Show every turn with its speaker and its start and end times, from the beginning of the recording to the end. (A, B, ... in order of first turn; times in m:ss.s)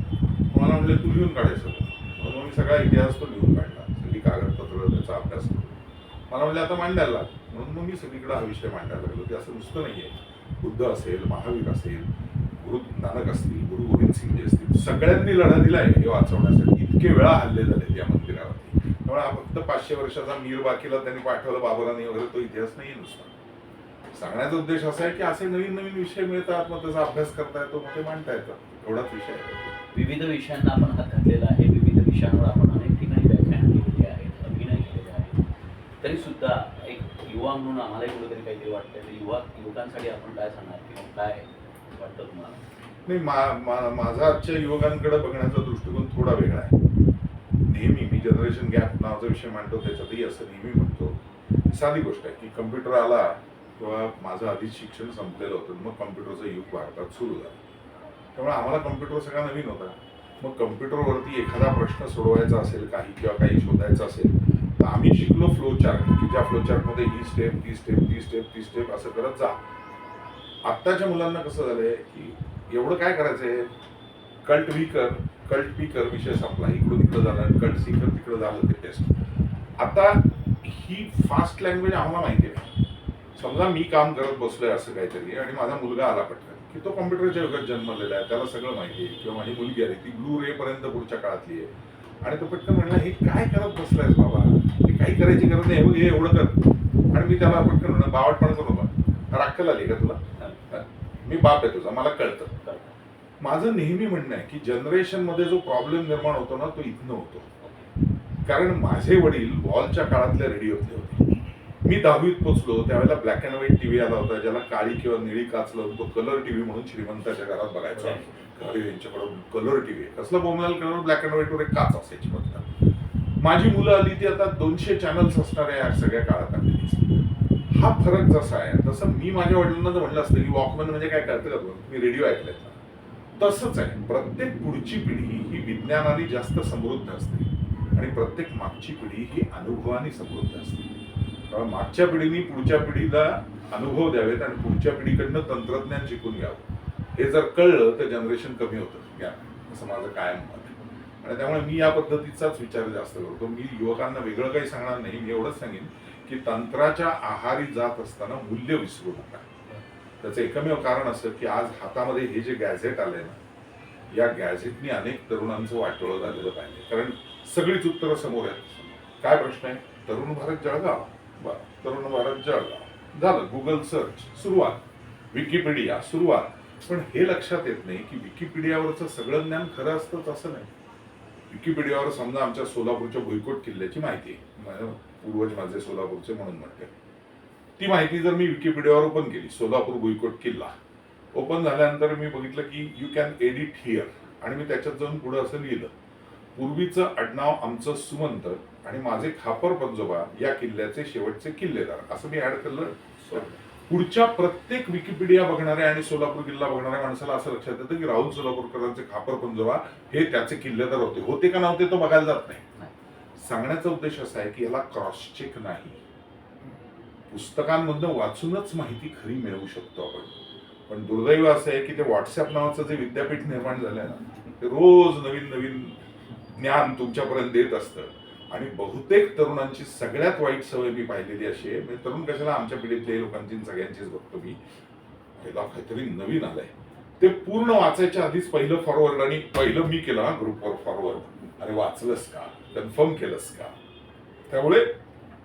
0:00.5-0:05.7 A
0:06.3-0:12.1 A
0:12.6-0:23.3 A
0:24.1-0:29.8 A
0:29.9-0:35.4 B
0:36.0-0:42.6 B
0:43.0-0:46.7 A
0:47.7-0:57.6 A
0:58.3-1:09.6 A
1:10.6-1:13.7 A
1:14.4-1:19.1 A
1:19.8-1:22.7 A
1:23.4-1:31.7 A
1:32.2-1:36.6 A
1:37.1-1:42.5 A
1:42.6-1:42.9 B
1:43.4-1:47.5 A
1:47.6-1:47.9 B
1:48.4-1:51.2 A
1:51.8-2:02.7 A
1:57.9-1:58.5 B
2:03.4-2:07.0 A
2:07.7-2:12.8 A
2:13.4-2:20.9 A
2:21.5-2:39.5 A
2:40.2-2:43.4 A
2:44.1-3:00.7 A
3:01.5-3:06.9 A
3:07.8-3:10.7 A
3:11.3-3:15.9 A
3:16.6-3:32.6 A
3:23.2-3:23.6 B
3:33.4-3:36.0 A
3:37.3-3:40.3 A
3:40.9-3:46.0 A
3:46.6-3:54.6 A
3:55.4-4:03.7 A
4:04.5-4:04.9 A